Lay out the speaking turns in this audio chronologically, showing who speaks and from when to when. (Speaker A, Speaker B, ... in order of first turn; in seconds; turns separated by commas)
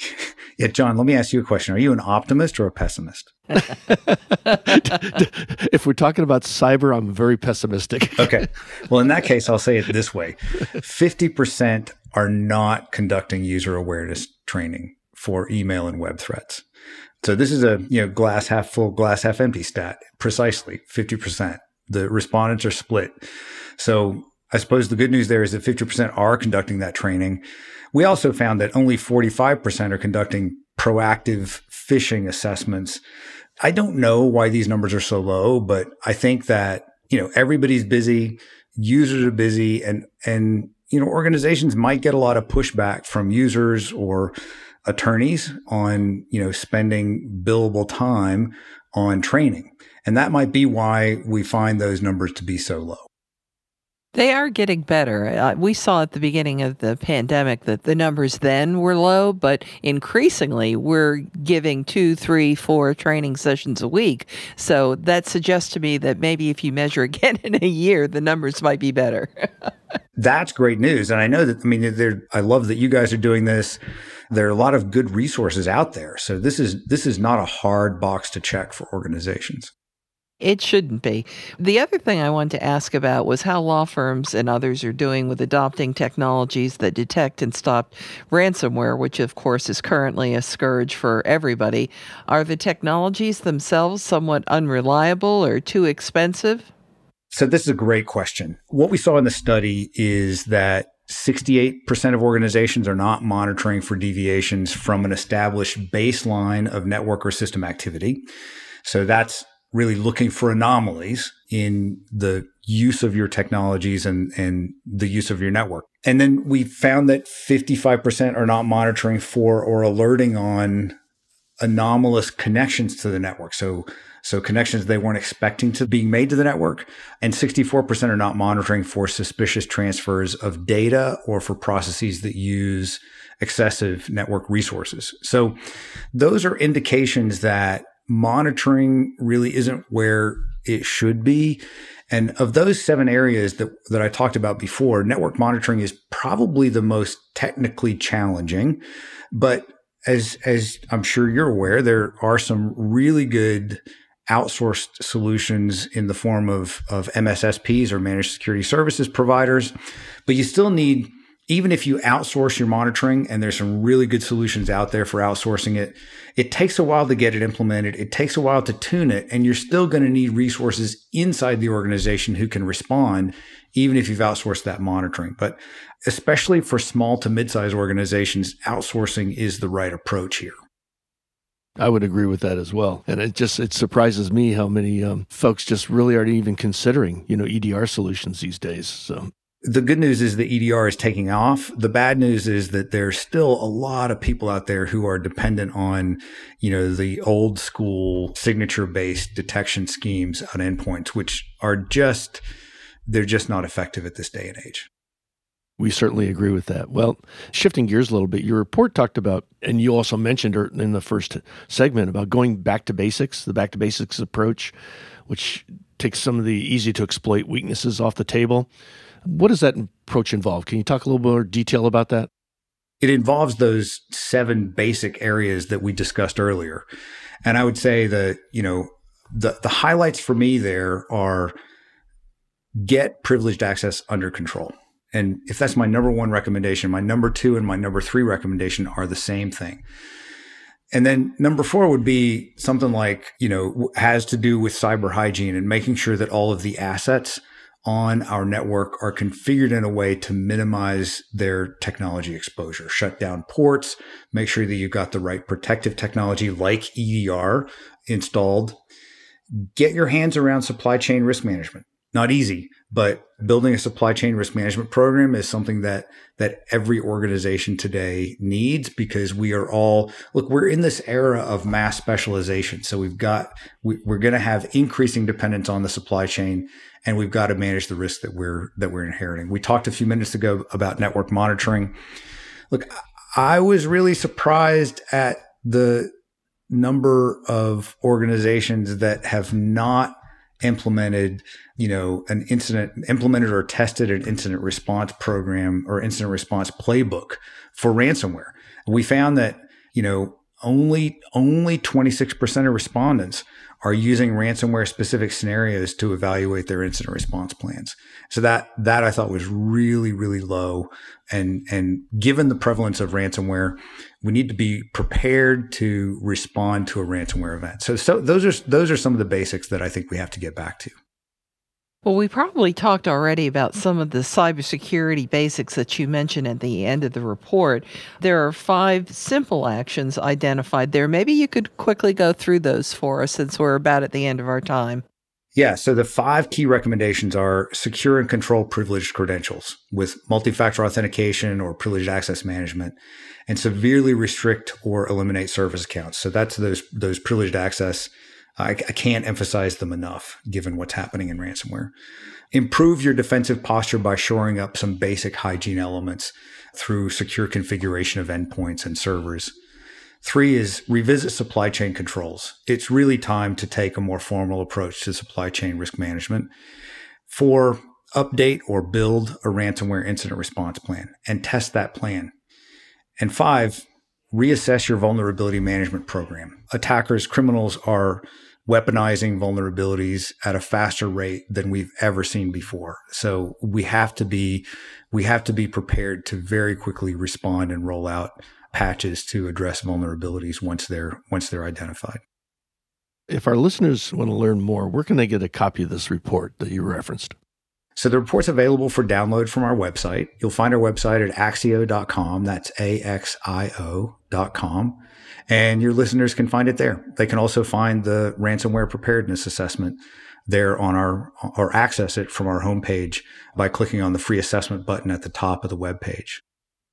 Speaker A: 0.2-3.3, Speaker B: 3.9-8.4, Speaker A: 8.2-16.6, Speaker A: 17.2-23.2, Speaker A: 23.8-33.0, Speaker A: 33.6-44.3, Speaker A: 44.8-53.1, Speaker C: 54.1-69.7, Speaker A: 70.2-79.7, Speaker C: 80.4-96.7, Speaker A: 97.3-108.2, Speaker A: 108.8-121.0, Speaker A: 121.6-135.6, Speaker A: 136.1-148.8, Speaker A: 149.3-159.7, Speaker A: 160.2-180.6, Speaker B: 181.8-189.3, Speaker A: 189.6-202.4, Speaker A: 203.1-204.9, Speaker B: 205.8-214.7, Speaker B: 215.3-218.7, Speaker B: 219.2-222.3, Speaker A: 223.0-226.8, Speaker A: 227.4-231.5, Speaker A: 232.8-239.8, Speaker A: 240.9-258.8, Speaker A: 259.6-281.9, Speaker A: 282.7-286.1, Speaker A: 286.7-320.9, Speaker C: 322.0-335.0, Speaker A: 335.5-342.9, Speaker A: 343.5-351.9, Speaker A: 352.5-359.5, Speaker A: 360.2-366.5, Speaker A: 367.3-372.3, Speaker A: 373.2-392.2, Speaker B: 393.3-397.3, Speaker A: 397.9-416.4